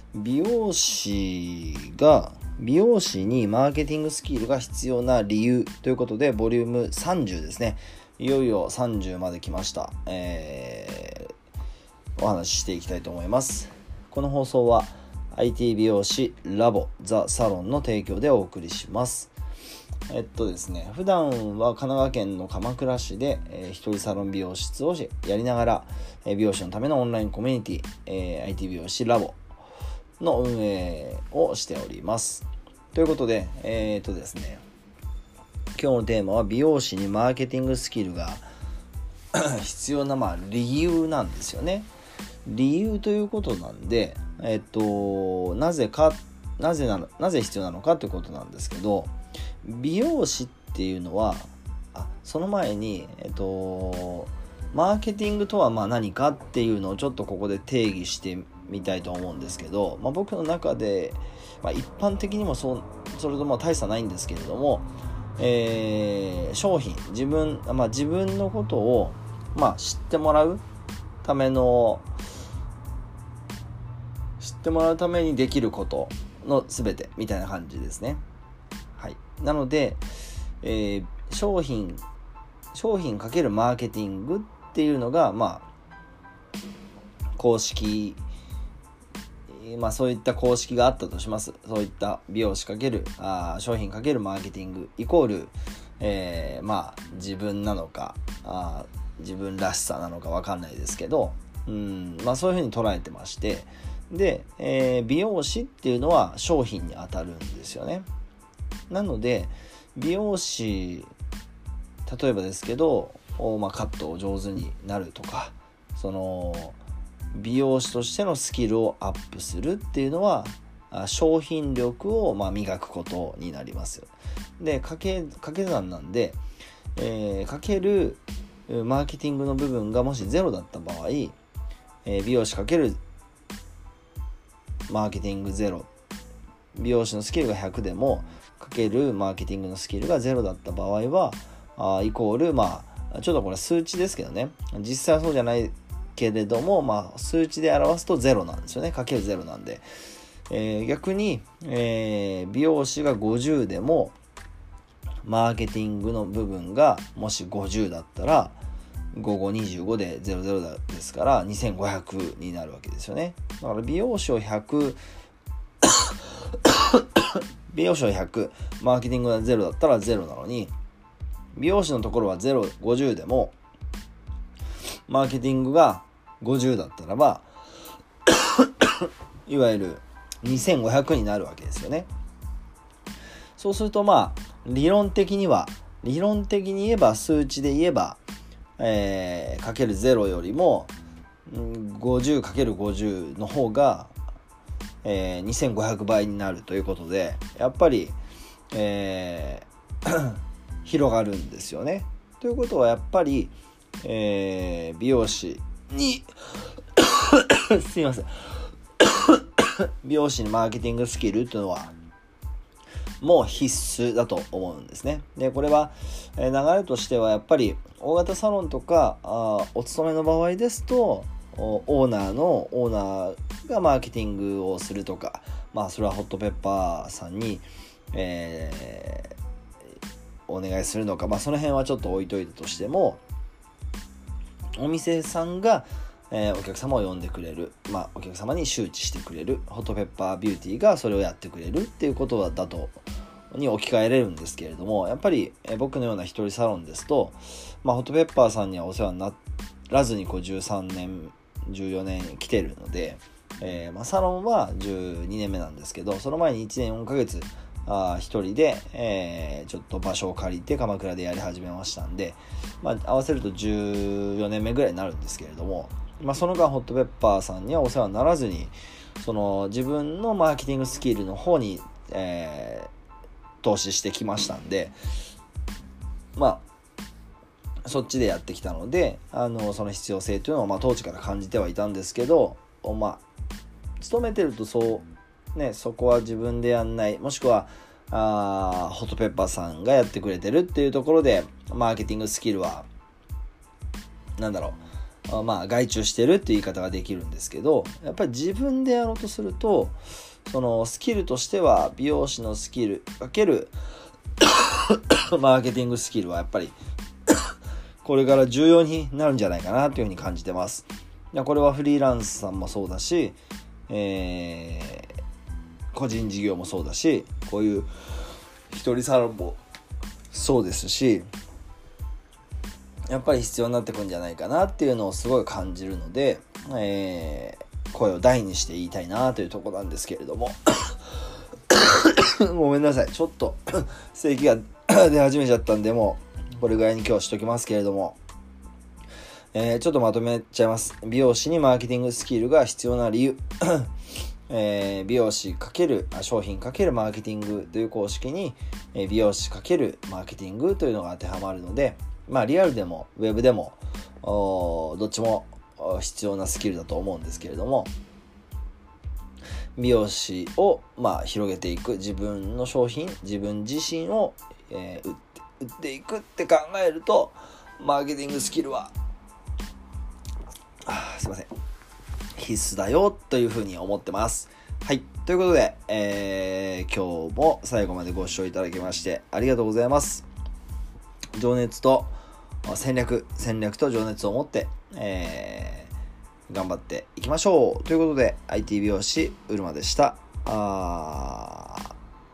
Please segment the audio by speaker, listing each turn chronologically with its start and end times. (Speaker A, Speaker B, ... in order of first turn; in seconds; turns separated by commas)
Speaker A: 0.1-11.3, Speaker A: 12.2-19.3, Speaker A: 20.1-29.4, Speaker A: 30.2-34.6, Speaker A: 35.8-38.5, Speaker A: 39.3-41.9, Speaker A: 42.5-49.1, Speaker A: 49.6-70.6, Speaker A: 71.2-72.1, Speaker A: 74.4-78.2, Speaker A: 79.0-80.0, Speaker A: 80.6-82.0, Speaker A: 82.7-85.7, Speaker A: 87.4-88.2, Speaker A: 89.5-108.1, Speaker A: 108.9-111.1, Speaker A: 112.1-116.8, Speaker A: 117.3-126.4, Speaker A: 127.0-131.4, Speaker A: 132.1-133.0, Speaker A: 134.9-135.9, Speaker A: 136.8-149.8, Speaker A: 150.5-154.2, Speaker A: 155.2-158.6, Speaker A: 159.1-165.0, Speaker A: 165.8-170.7, Speaker A: 171.6-173.6, Speaker A: 175.1-177.5, Speaker A: 178.3-182.1, Speaker A: 183.6-188.2, Speaker A: 188.8-190.9, Speaker A: 191.5-194.1, Speaker A: 195.0-198.2, Speaker A: 198.7-211.9, Speaker A: 213.2-229.3, Speaker A: 230.5-233.2, Speaker A: 234.8-249.4, Speaker A: 249.9-272.9, Speaker A: 273.6-275.0, Speaker A: 276.4-276.7, Speaker A: 277.9-283.2, Speaker A: 284.0-292.9, Speaker A: 294.4-299.9, Speaker A: 300.5-303.7, Speaker A: 304.4-306.8, Speaker A: 308.0-313.4, Speaker A: 313.9-315.2, Speaker A: 315.9-317.9, Speaker A: 318.7-319.6, Speaker A: 320.3-321.3, Speaker A: 323.1-331.1, Speaker A: 331.7-338.2, Speaker A: 339.5-343.9, Speaker A: 344.5-357.9, Speaker A: 359.8-368.9, Speaker A: 370.9-371.5, Speaker A: 372.4-380.3, Speaker A: 381.4-382.1, Speaker A: 382.6-385.9, Speaker A: 386.5-391.9